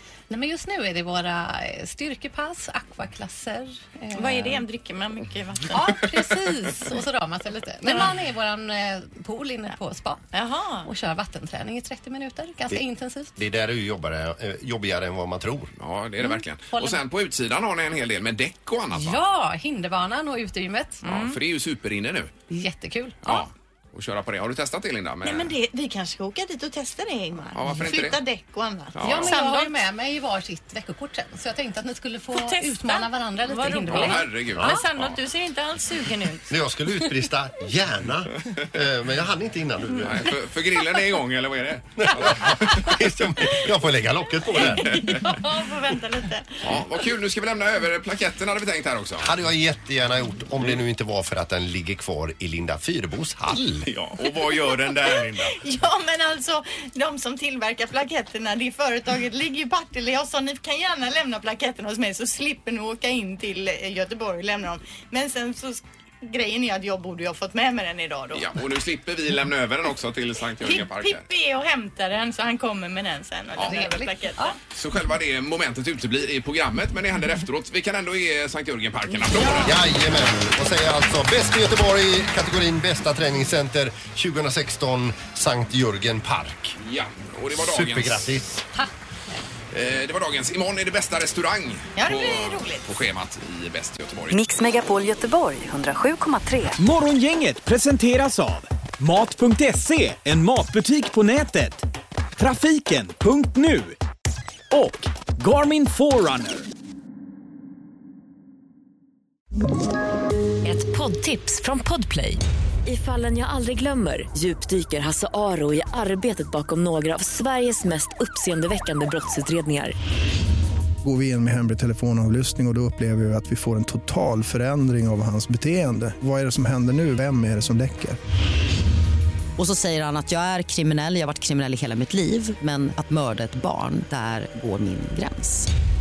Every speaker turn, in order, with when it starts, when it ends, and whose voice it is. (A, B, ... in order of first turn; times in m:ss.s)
0:00.3-0:04.6 A
0:04.1-0:06.0 B
0:05.7-0:10.2 A
0:07.8-0:08.2 B
0:10.3-0:10.9 B
0:10.8-0:13.3 A
0:13.4-0:15.7 C
0:15.8-0:19.3 D
0:16.7-0:17.0 A
0:18.9-0:21.0 A
0:21.0-0:21.4 B
0:21.0-0:22.3 D
0:22.5-0:23.2 A
0:23.2-0:25.5 D
0:25.2-0:29.8 B
0:27.5-0:28.2 D
0:28.9-0:29.4 D
0:29.0-0:34.2 A
0:32.3-0:36.5 B
0:33.8-0:35.1 D
0:36.5-0:40.3 C
0:40.0-0:43.0 D
0:42.1-0:45.0 C
0:44.6-0:46.6 B
0:44.6-0:45.2 D
0:46.6-0:49.3 D
0:49.2-0:53.9 C
0:53.8-0:55.6 D
0:55.1-1:08.5 B
1:08.3-1:11.2 D
1:10.6-1:14.6 B
1:13.6-1:13.8 D
1:13.6-1:14.5 A
1:14.7-1:19.8 D
1:19.5-1:26.8 C
1:26.8-1:28.4 D
1:27.5-1:28.6 C
1:29.7-1:34.4 D
1:32.0-1:32.8 B
1:34.3-1:36.8 E
1:36.8-1:41.8 F
1:42.4-1:44.0 F
1:44.7-1:46.6 F
1:50.6-1:59.9 E
2:01.0-2:08.2 G
2:09.6-2:15.7 H